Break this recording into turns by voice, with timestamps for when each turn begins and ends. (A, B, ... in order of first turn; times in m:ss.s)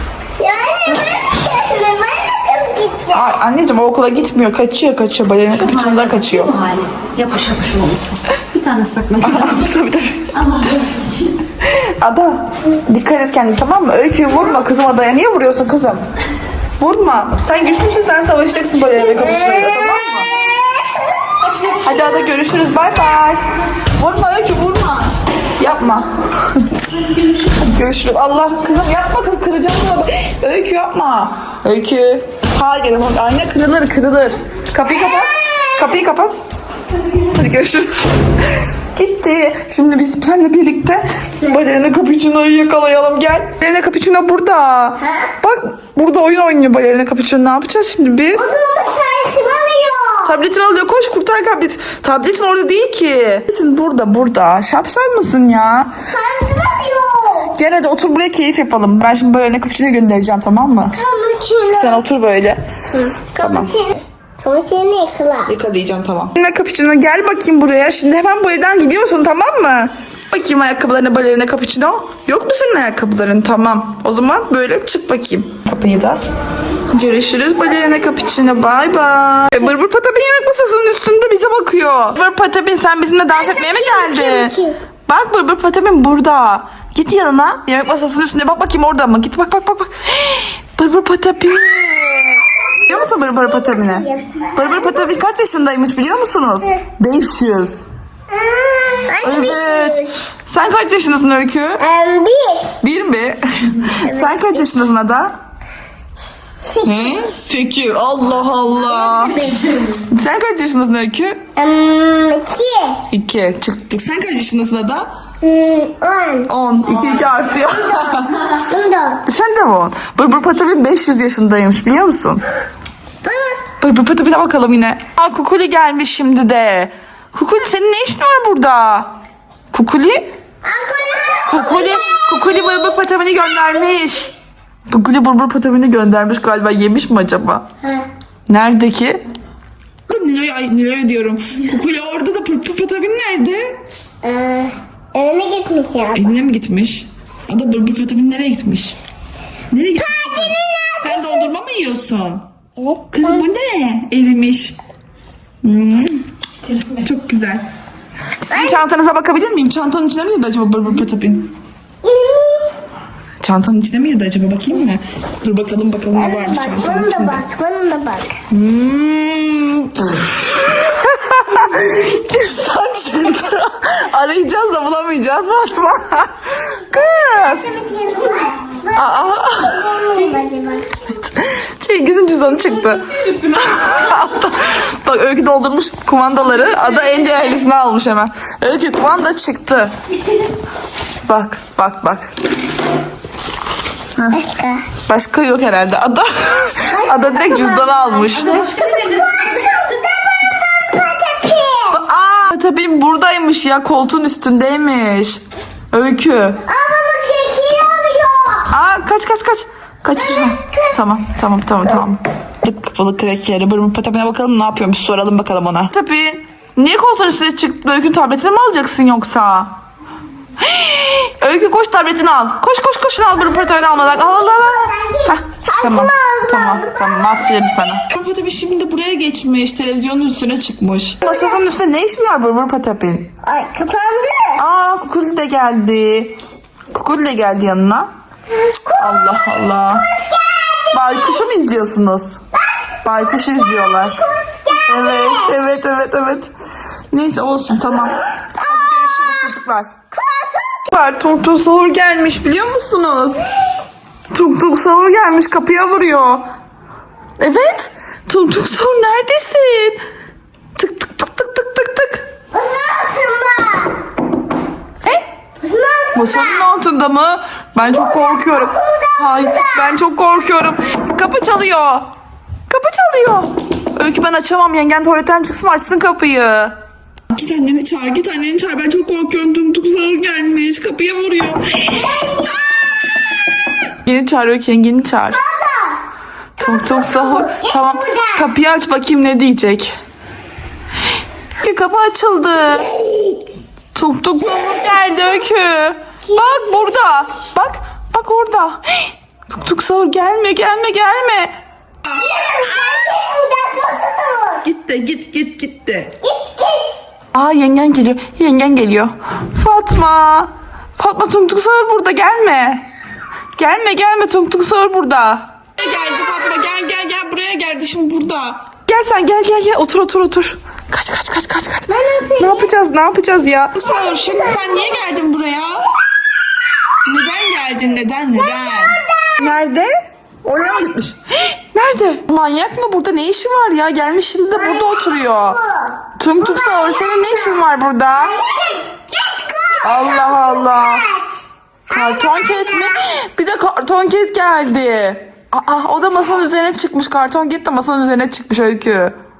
0:00.4-0:03.3 A
0:03.1-0:06.5 B
0:05.5-0:09.7 C
0:09.2-0:10.3 B
0:10.3-0:11.4 C
0:11.6-0:16.0 B
0:16.8-0:20.3 B
0:19.1-0:21.5 A
0:21.6-0:26.7 B
0:27.2-0:36.4 B
0:37.1-0:48.5 B
0:45.0-0:45.3 A
0:48.3-0:50.4 A
0:50.2-0:56.0 B
0:56.1-0:57.6 A
0:57.5-1:01.0 B
1:00.9-1:02.1 A
1:01.7-1:02.6 B
1:02.9-1:05.5 A
1:03.3-1:03.7 B
1:05.5-1:16.2 B
1:16.9-1:24.6 B
1:23.3-1:24.8 A
1:25.1-1:37.8 B
1:31.9-1:35.1 A
1:38.3-1:40.2 A
1:39.2-1:41.8 B
1:41.8-1:42.8 A
1:42.8-1:45.3 B
1:44.0-1:44.7 A
1:46.6-1:47.2 A
1:46.8-1:51.4 B
1:48.9-1:50.0 C
1:51.6-1:53.0 A
1:53.1-1:55.1 B
1:55.4-1:56.5 A
1:56.5-1:58.5 B
1:57.8-1:59.2 A
1:59.2-2:02.4 B
2:03.2-2:03.6 A
2:03.8-2:09.1 B
2:09.7-2:10.3 B
2:10.6-2:13.0 A
2:11.5-2:14.3 B
2:14.9-2:17.7 B
2:17.8-2:18.1 A
2:18.5-2:19.2 B
2:20.1-2:23.8 B
2:24.2-2:26.3 A
2:26.1-2:29.0 B
2:29.7-2:32.4 B
2:30.0-2:31.5 A
2:32.8-2:33.4 A
2:33.1-2:34.8 B
2:35.6-2:36.2 B
2:36.8-2:37.6 B
2:38.4-2:41.5 B
2:38.5-2:38.8 A
2:42.0-2:42.8 A
2:43.4-2:47.4 B
2:46.1-2:48.4 A
2:48.5-2:57.8 B
2:57.0-3:01.0 A
2:58.9-3:00.3 B
3:01.1-3:09.9 B
3:11.2-3:12.3 B
3:14.3-3:14.9 A
3:15.0-3:18.5 B
3:16.9-3:22.0 A
3:18.3-3:19.8 C
3:21.9-3:25.4 B
3:25.9-3:26.6 B
3:26.7-3:28.7 A
3:28.7-3:39.7 B
3:30.1-3:31.0 A
3:40.6-3:53.3 B
3:43.5-3:47.5 A
3:51.2-3:51.6 A
3:53.4-3:54.6 A
3:54.6-3:56.4 B
3:56.9-3:58.1 B
3:58.6-4:01.4 A
3:58.9-4:00.1 B
4:00.9-4:02.4 B
4:02.5-4:05.6 A
4:03.0-4:04.2 B
4:04.8-4:06.5 B
4:07.1-4:10.0 B
4:08.4-4:09.4 A
4:10.1-4:10.9 A
4:10.9-4:13.4 B
4:14.3-4:16.4 B
4:17.4-4:20.0 B
4:20.7-4:22.2 B
4:22.5-4:24.0 A
4:25.6-4:26.7 A
4:26.1-4:32.1 B
4:27.8-4:30.0 A
4:32.7-4:36.7 B
4:37.3-4:42.2 B
4:42.1-4:43.2 A
4:44.0-4:45.4 B
4:45.3-4:46.0 A
4:46.6-4:49.9 B
4:46.6-4:48.5 A
4:51.6-4:53.2 B
4:53.9-5:01.5 B
4:56.3-4:56.8 A
5:02.1-5:04.6 A
5:04.6-5:06.1 B
5:06.2-5:07.0 A
5:07.3-5:12.9 B
5:13.6-5:25.9 B
5:21.9-5:22.7 A
5:23.8-5:25.1 A
5:27.0-5:29.9 B
5:28.3-5:29.6 A
5:30.4-5:35.6 B
5:34.5-5:41.3 A
5:36.2-5:38.4 B
5:39.8-5:41.1 B
5:41.9-5:49.1 B
5:41.9-5:43.0 A